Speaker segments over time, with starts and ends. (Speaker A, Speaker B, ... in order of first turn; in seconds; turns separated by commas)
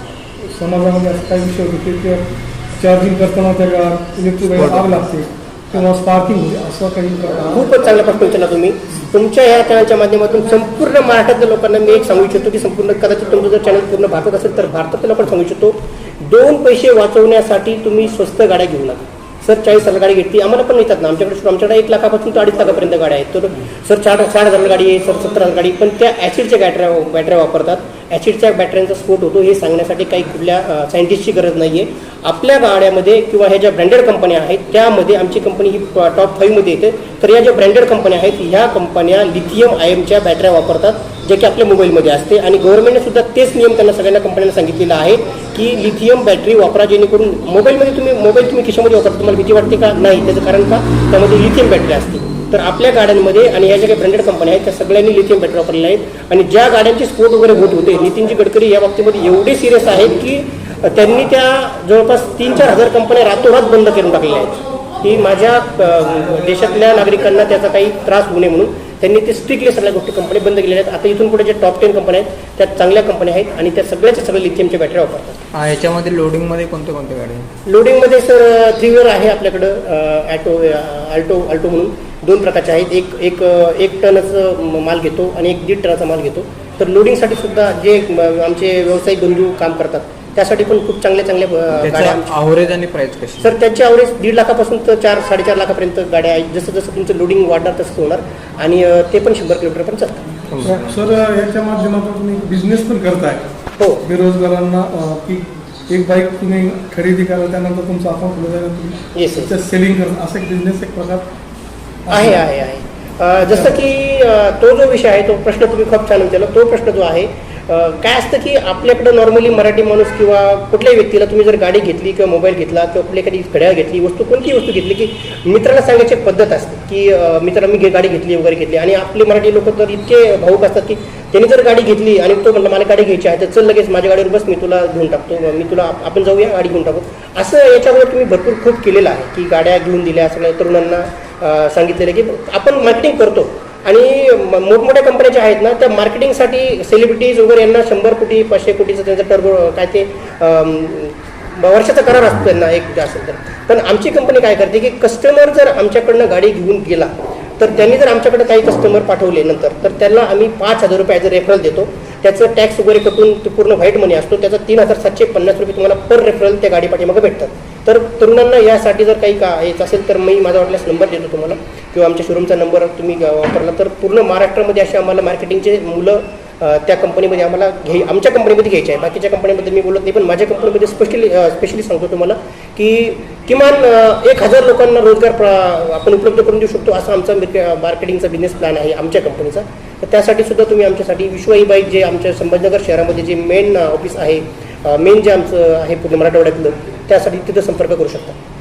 Speaker A: 0.5-7.7, Speaker B: 4.5-4.9, Speaker C: 7.5-75.4, Speaker B: 75.5-77.5, Speaker C: 77.7-92.3, Speaker B: 91.8-93.5, Speaker C: 93.4-100.4, Speaker B: 100.5-101.0, Speaker A: 100.7-103.5, Speaker A: 104.0-111.2, Speaker C: 109.1-109.5, Speaker A: 112.1-112.4, Speaker C: 112.1-198.4, Speaker A: 113.5-113.8